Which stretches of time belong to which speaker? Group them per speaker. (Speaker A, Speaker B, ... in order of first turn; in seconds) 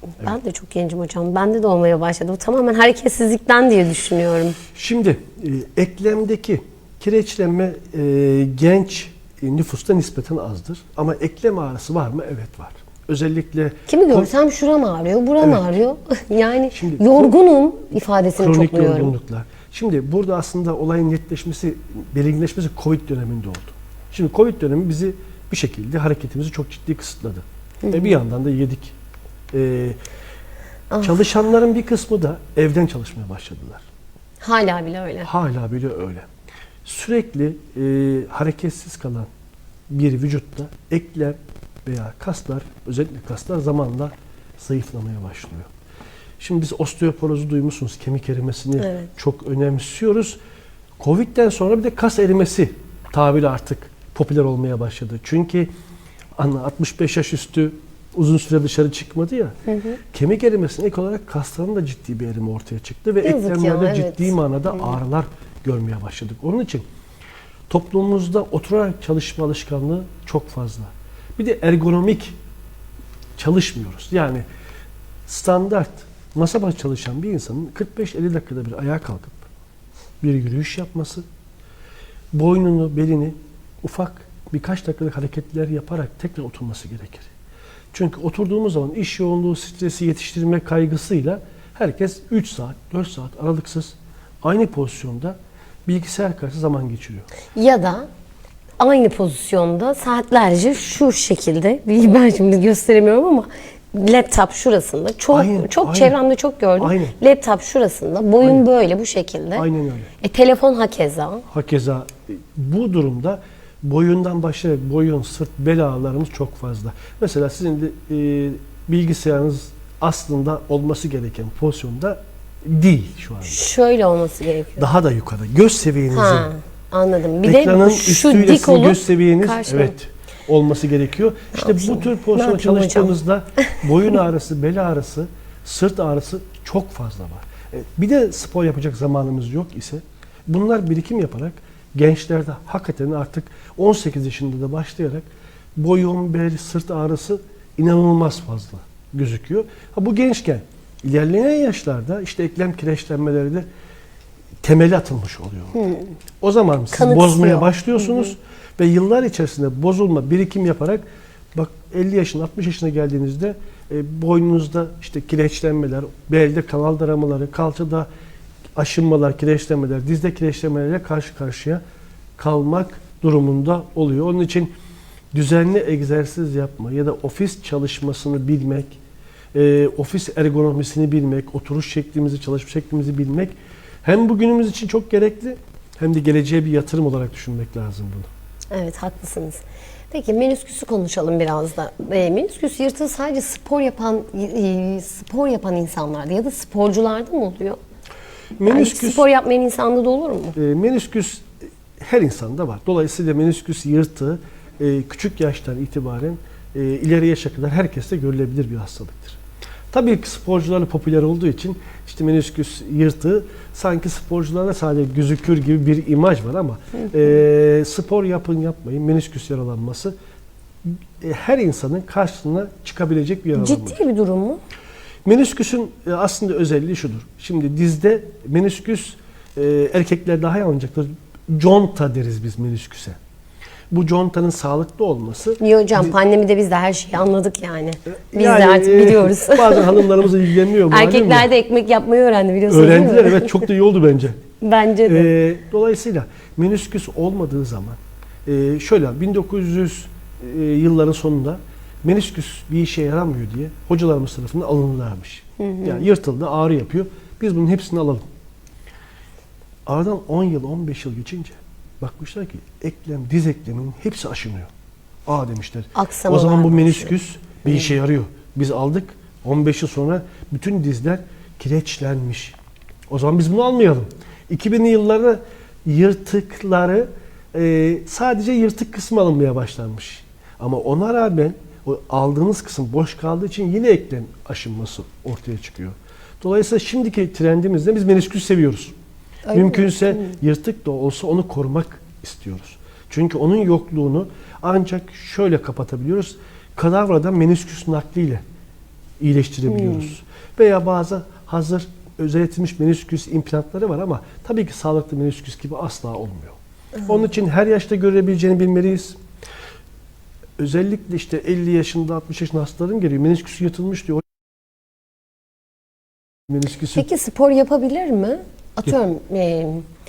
Speaker A: 0.2-4.6, 13.9-19.1, 27.8-28.2, 30.9-31.2, 34.4-35.3, 48.8-49.1, 59.7-60.0, 63.2-64.9, 97.5-98.1, 98.8-109.7, 110.2-111.5, 123.4-124.9, 126.1-130.0, 131.5-133.2, 155.7-156.1, 156.9-158.3, 188.7-197.8, 198.7-200.6, 223.6-224.6, 235.6-240.1, 240.9-243.6, 244.6-245.3, 255.6-256.1, 265.9-267.1, 289.4-290.4, 316.9-319.8
Speaker B: 4.7-14.3, 15.4-15.7, 16.7-17.4, 18.4-28.9, 29.5-30.0, 31.0-33.8, 35.2-36.3, 36.8-39.3, 39.9-45.7, 46.4-50.4, 51.0-55.7, 56.4-59.5, 60.1-66.8, 67.7-72.4, 73.4-74.4, 75.3-79.5, 80.2-81.2, 82.3-87.3, 87.9-97.3, 105.3-106.2, 106.8-107.2, 109.5-110.1, 111.5-123.6, 124.8-126.5, 127.4-153.7, 154.6-155.8, 156.4-168.1, 168.8-171.8, 172.4-174.7, 175.3-179.0, 179.5-188.3, 198.6-199.2, 200.5-201.5, 202.0-209.4, 209.9-220.1, 220.8-224.0, 225.2-233.2, 233.9-236.2, 238.1-241.5, 242.7-244.4, 245.0-258.2, 259.9-264.7, 265.2-272.6, 273.1-288.9, 289.5-298.4, 299.2-309.2, 310.6-314.2, 316.5-317.1